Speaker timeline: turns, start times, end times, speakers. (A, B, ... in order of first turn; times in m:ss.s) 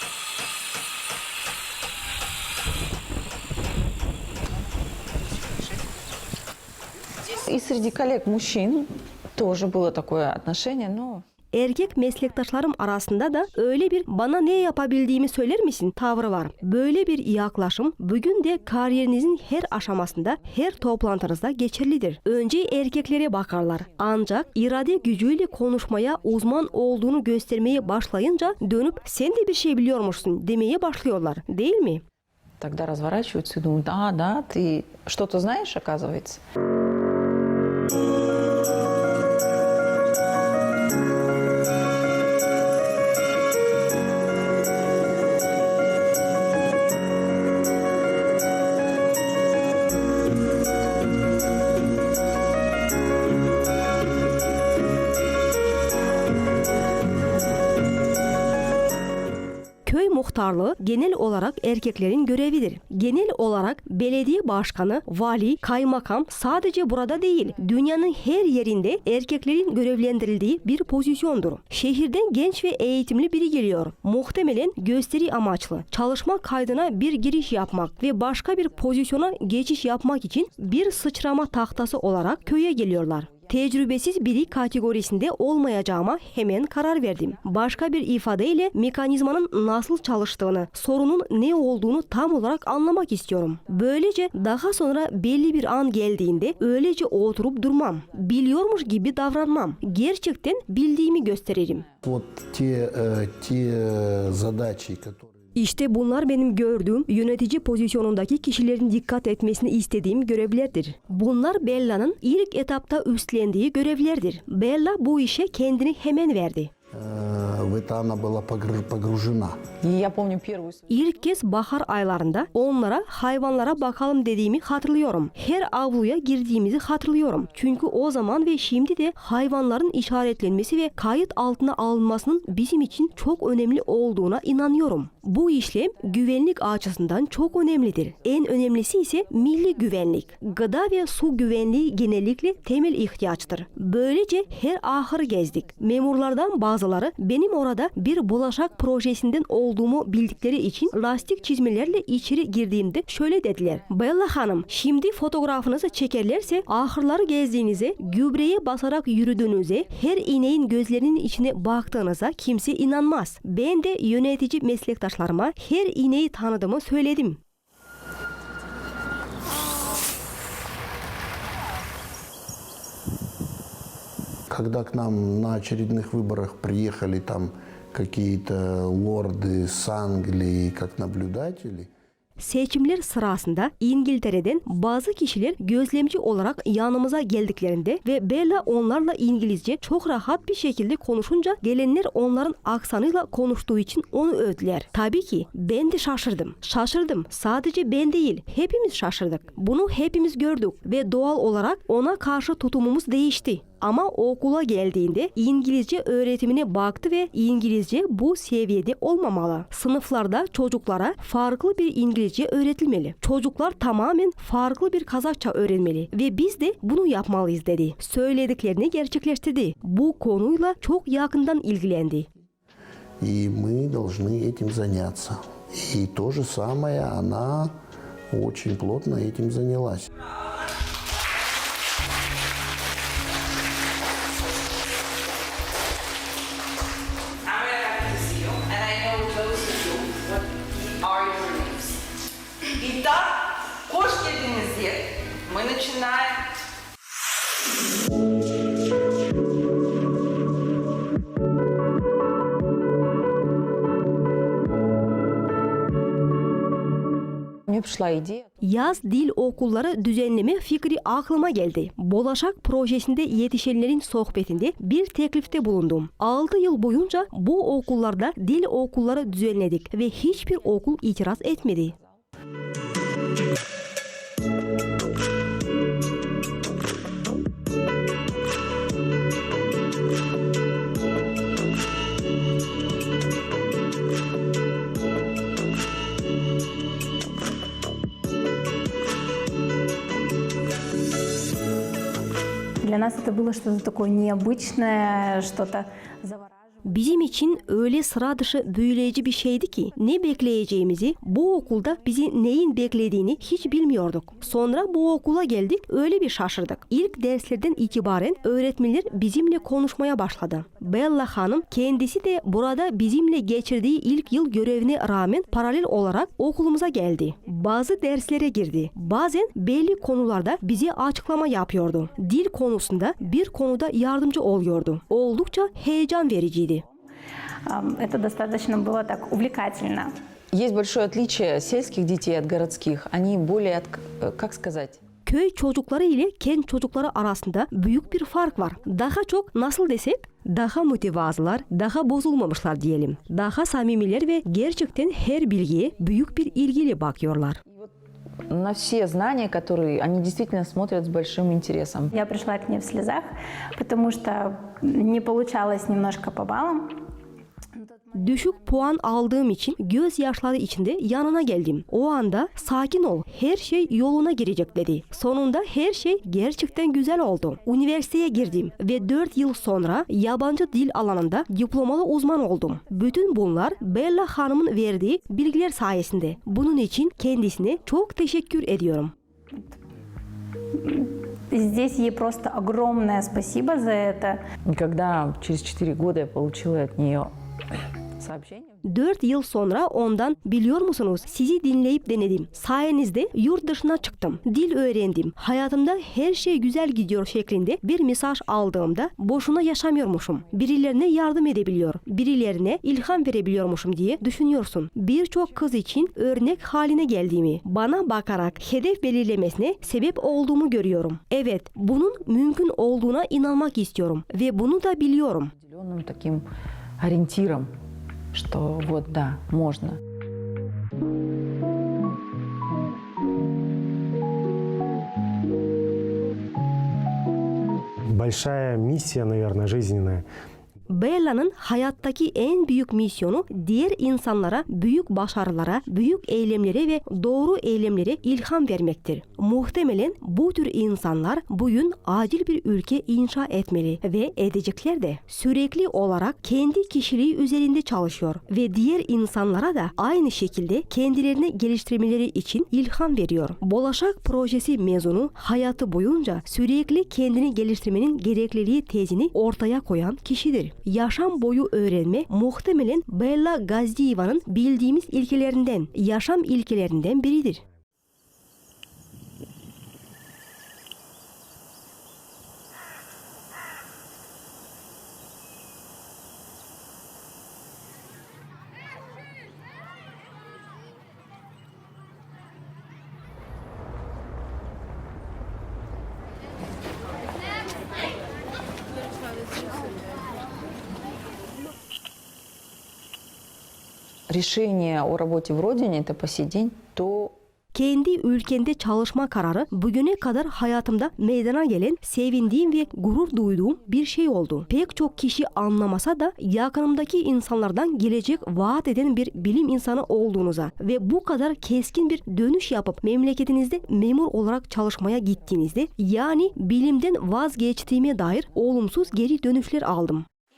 0:07.3-0:11.2 A
0:11.5-0:32.0 B
0:32.6-0:36.4 A
0:59.8-1:41.9 B
1:42.0-1:45.3 C
1:45.6-1:56.7 B
1:56.9-1:59.6 C
1:59.8-2:00.8 A
2:00.9-2:47.4 B
2:54.5-3:01.9 C
3:02.4-3:42.3 B
3:43.2-3:47.7 C
3:48.3-3:50.1 C
3:58.6-4:00.2 A
4:01.0-4:01.8 A
4:03.9-4:04.9 A
4:05.5-4:06.2 A
4:17.7-4:18.5 A
4:18.6-4:32.0 B
4:52.8-4:56.5 D
4:56.8-5:26.8 B
5:27.7-5:30.1 D
5:30.5-5:35.0 A
5:35.3-5:47.6 B
5:48.5-5:52.1 A
5:52.1-5:57.0 D
5:58.1-6:19.1 B
6:20.8-6:24.4 D
6:24.7-6:27.3 A
6:28.2-6:28.8 A
6:28.8-6:55.5 B
6:55.6-6:56.5 A
6:57.0-6:57.7 A
6:58.3-7:00.0 A
7:08.1-7:10.3 E
7:10.9-7:47.6 B
8:14.3-8:17.4 A
8:17.7-8:40.3 B